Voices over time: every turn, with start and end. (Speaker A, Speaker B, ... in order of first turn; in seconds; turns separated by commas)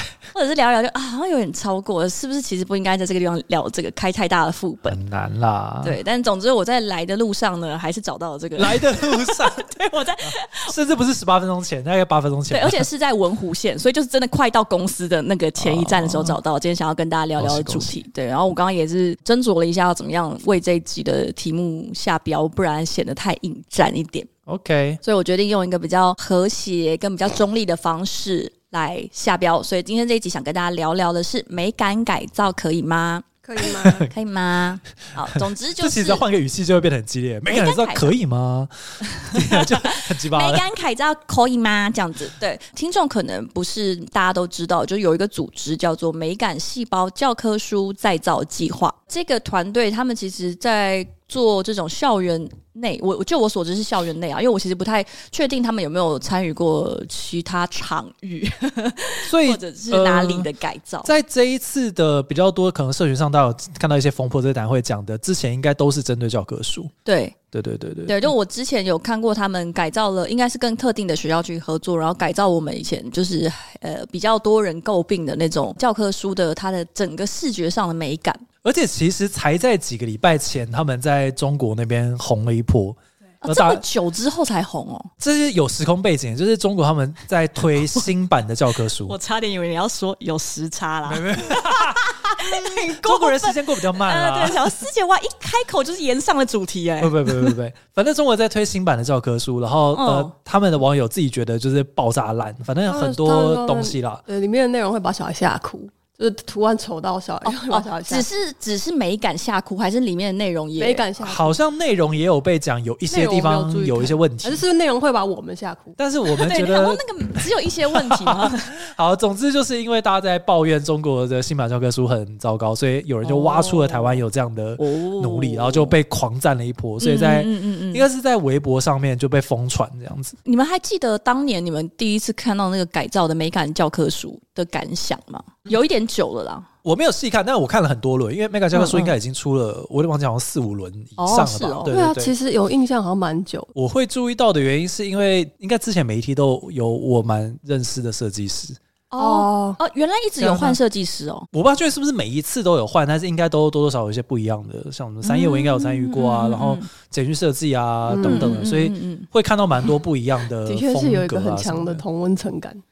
Speaker A: 0.3-5.0, Speaker B: 4.9-6.0, Speaker A: 5.8-10.7, Speaker B: 8.6-9.7, Speaker B: 10.2-12.9, Speaker A: 12.5-24.3, Speaker B: 15.6-16.4, Speaker B: 17.4-18.0, Speaker B: 24.5-25.0, Speaker A: 25.0-33.2, Speaker C: 33.4-34.1, Speaker B: 33.7-34.1, Speaker A: 34.0-36.2, Speaker B: 35.8-40.6, Speaker A: 37.5-38.1, Speaker A: 39.1-61.1, Speaker B: 59.3-60.5, Speaker B: 61.0-66.9, Speaker A: 67.0-67.4, Speaker B: 67.5-68.3, Speaker A: 68.1-78.4, Speaker B: 78.6-83.8, Speaker A: 83.5-85.1, Speaker B: 85.2-89.2, Speaker A: 89.1-97.6, Speaker B: 91.1-94.8, Speaker B: 97.0-104.2, Speaker A: 99.9-100.3, Speaker C: 102.9-108.3, Speaker A: 107.4-111.1, Speaker C: 110.8-111.6, Speaker B: 111.2-114.6, Speaker C: 113.1-116.0, Speaker B: 116.0-130.4, Speaker A: 116.3-118.7, Speaker A: 123.2-124.2, Speaker A: 124.8-126.0, Speaker A: 127.0-128.1, Speaker A: 130.4-136.7, Speaker B: 136.8-142.3, Speaker A: 138.7-139.1, Speaker A: 141.2-141.9, Speaker C: 141.9-143.7, Speaker B: 143.8-148.8, Speaker C: 149.1-149.8, Speaker A: 149.2-151.5, Speaker B: 150.4-150.8, Speaker B: 151.5-162.0, Speaker A: 155.2-156.9, Speaker C: 158.1-158.6, Speaker A: 158.2-159.3, Speaker C: 160.7-162.8